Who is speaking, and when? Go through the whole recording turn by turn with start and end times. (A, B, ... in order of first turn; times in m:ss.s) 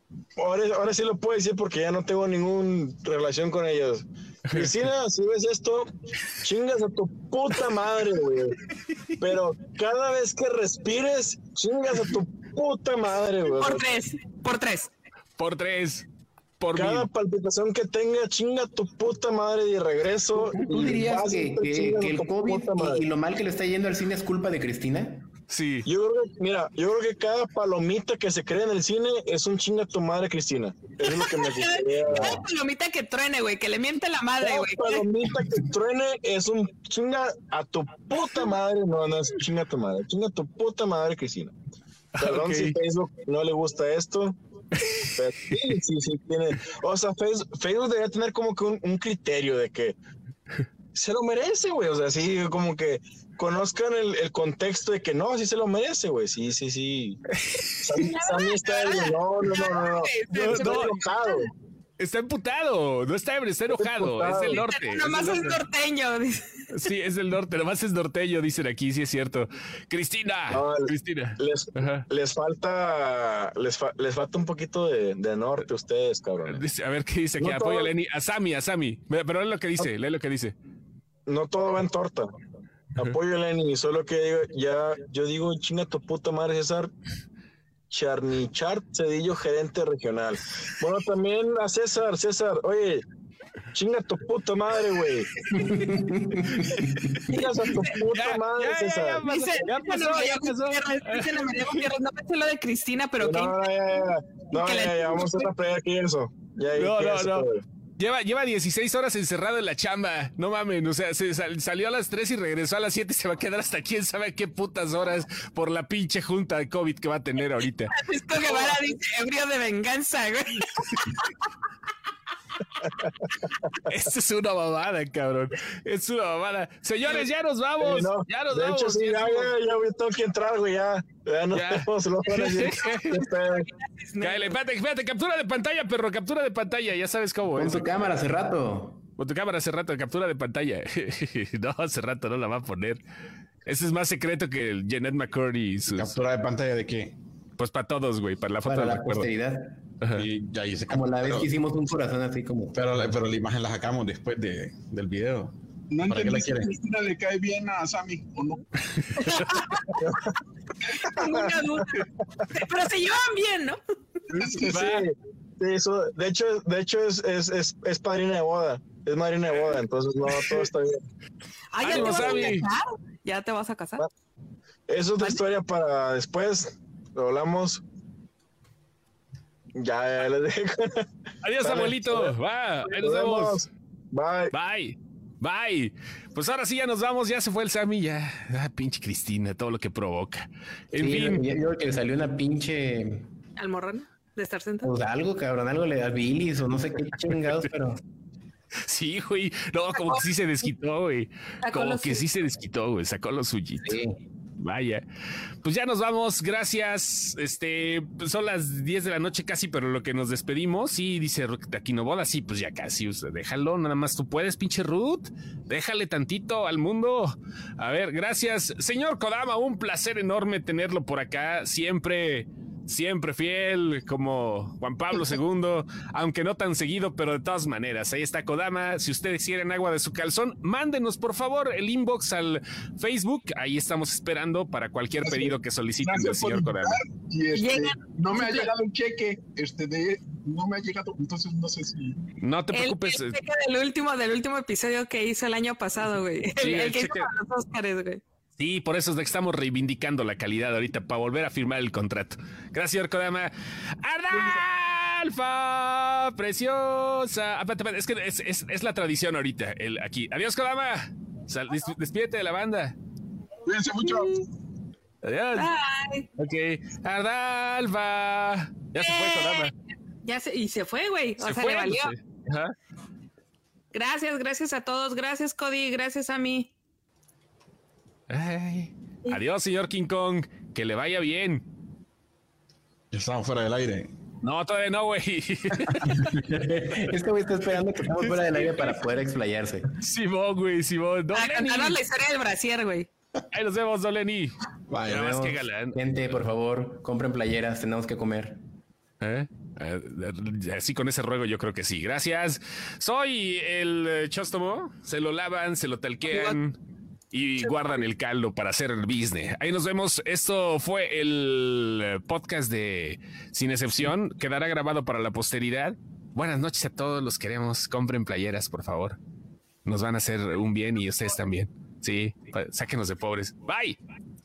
0:00.4-0:08.6 A
0:09.2-0:13.9 A
0:13.6-0:14.9 B
0:15.4-0:16.0 C
0:16.6-0:17.1 C
0:16.7-0:23.0 A
0:20.3-0:25.2 D
0:25.5-0:25.9 C
0:25.8-0:32.4 A
0:31.0-0:35.0 B
0:32.1-0:32.4 D
0:34.4-0:41.5 A
0:42.2-0:42.8 C
0:42.2-0:44.4 A
0:44.8-0:45.7 C
0:45.2-0:50.0 A
0:51.0-0:57.2 A
0:57.4-0:58.1 C
0:57.8-1:01.5 A
0:58.0-1:01.5 B
1:00.3-1:01.0 C
1:02.0-1:05.3 C
1:03.8-1:04.6 A
1:04.5-1:06.6 B
1:05.1-1:05.6 A
1:06.7-1:12.1 C
1:10.5-1:16.6 A
1:16.4-1:20.6 C
1:17.4-1:17.9 A
1:21.3-1:22.3 A
1:23.0-1:26.9 A
1:27.9-1:33.0 A
1:33.7-1:35.3 A
1:35.4-1:37.3 C
1:35.6-1:37.1 D
1:37.3-1:39.2 A
1:37.3-1:37.9 B
1:38.1-1:41.9 C
1:39.2-1:43.6 B
1:43.2-1:47.6 A
1:44.5-1:45.5 B
1:46.8-1:57.9 C
1:57.9-2:01.3 B
2:02.8-2:03.7 A
2:03.8-2:09.5 C
2:07.8-2:13.7 A
2:11.5-2:13.3 C
2:13.7-2:14.6 B
2:14.2-2:17.9 C
2:17.6-2:19.0 D
2:19.2-2:23.0 C
2:23.7-2:26.2 C
2:25.9-2:27.1 E
2:27.6-2:29.3 C
2:28.6-2:29.8 D
2:30.1-2:31.5 E
2:30.9-2:32.8 D
2:32.7-2:36.7 E
2:35.9-2:38.6 F
2:38.9-2:39.6 C
2:39.2-2:39.8 B
2:40.0-2:40.3 A
2:41.0-2:43.8 B
2:41.1-2:41.5 A
2:44.3-2:44.8 F
2:44.4-2:51.0 A
2:44.6-2:45.1 C
2:51.7-2:54.0 B
2:51.8-2:52.7 C
2:52.0-2:52.4 A
2:54.9-2:57.8 A
2:59.7-3:01.0 A
3:01.4-3:03.7 C
3:01.6-3:02.3 A
3:02.9-3:04.5 A
3:04.5-3:11.5 C
3:10.9-3:13.3 D
3:13.6-3:14.9 B
3:14.8-3:18.0 D
3:17.3-3:17.7 C
3:18.8-3:24.0 C
3:21.6-3:22.2 B
3:23.8-3:24.2 D
3:24.6-3:25.0 C
3:25.6-3:57.0 C
3:55.2-4:02.2 F
3:57.6-3:58.7 B
4:02.4-4:03.4 C
4:02.7-4:08.2 B
4:06.6-4:07.3 C
4:08.6-4:23.0 C
4:23.7-4:24.4 F
4:25.2-4:25.7 C
4:25.6-4:26.3 B
4:26.4-4:29.7 C
4:29.0-4:29.7 B
4:30.2-4:32.1 B
4:31.4-4:32.7 C
4:33.9-4:36.7 B
4:38.3-4:41.6 C
4:43.1-4:44.1 E
4:44.4-4:46.4 C
4:46.4-4:49.9 D
4:48.2-4:49.0 C
4:50.0-4:52.0 C
4:51.3-4:53.1 B
4:53.5-4:56.5 C
4:54.9-4:58.6 D
4:59.2-5:06.8 C
5:06.3-5:06.6 B
5:07.3-5:19.2 C
5:07.6-5:08.0 B
5:19.8-5:24.0 C